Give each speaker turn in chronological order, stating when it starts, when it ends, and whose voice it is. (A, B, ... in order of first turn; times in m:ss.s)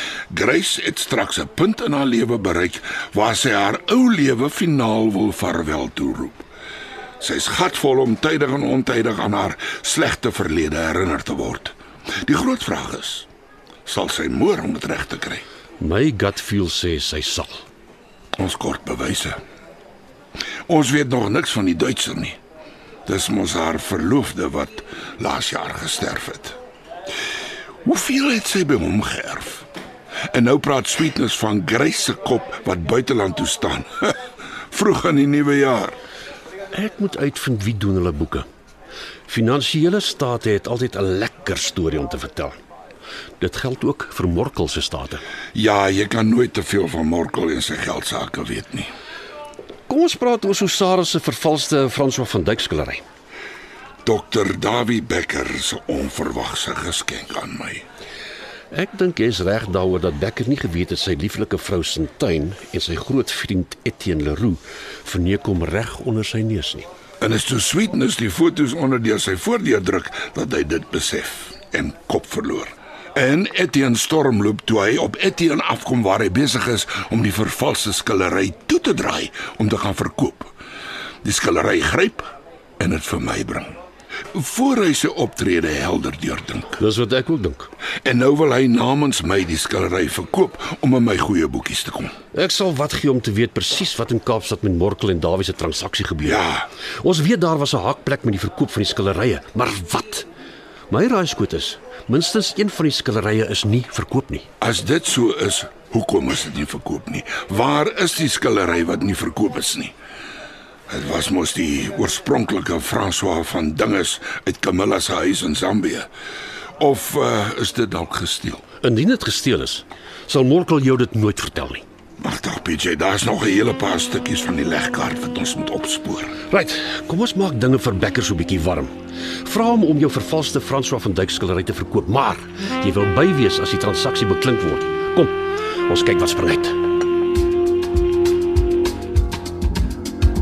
0:00.3-0:06.4 A
0:07.2-0:13.3 A
0:13.8-0:15.4 A
0:15.8-0:17.6 B
0:18.4-0:19.4 A
0:20.7-0:22.4 A
0:23.0-0:26.6 A
0:27.8-0:29.6 A
0:30.3-0:34.2 A
0:34.7-0:36.0 A
0:36.7-0:38.4 B
0:39.3-0:42.6 B
0:43.4-0:45.2 B
0:45.5-0:48.9 A
0:49.9-0:53.0 B
0:54.0-0:57.8 A
0:58.7-1:06.9 B
1:07.2-1:20.5 A
1:21.2-1:22.3 A
1:22.8-1:23.8 A
1:24.3-1:26.8 A
1:26.8-1:27.7 B
1:28.0-1:32.1 A
1:32.3-1:36.4 B
1:36.2-1:36.7 A
1:37.0-1:40.3 B
1:40.9-1:44.5 B
1:44.6-1:49.9 A
1:50.9-1:56.1 A
1:56.8-1:58.6 A
1:58.8-2:01.8 B
2:02.2-2:06.4 A
2:06.5-2:15.3 B
2:15.8-2:16.8 B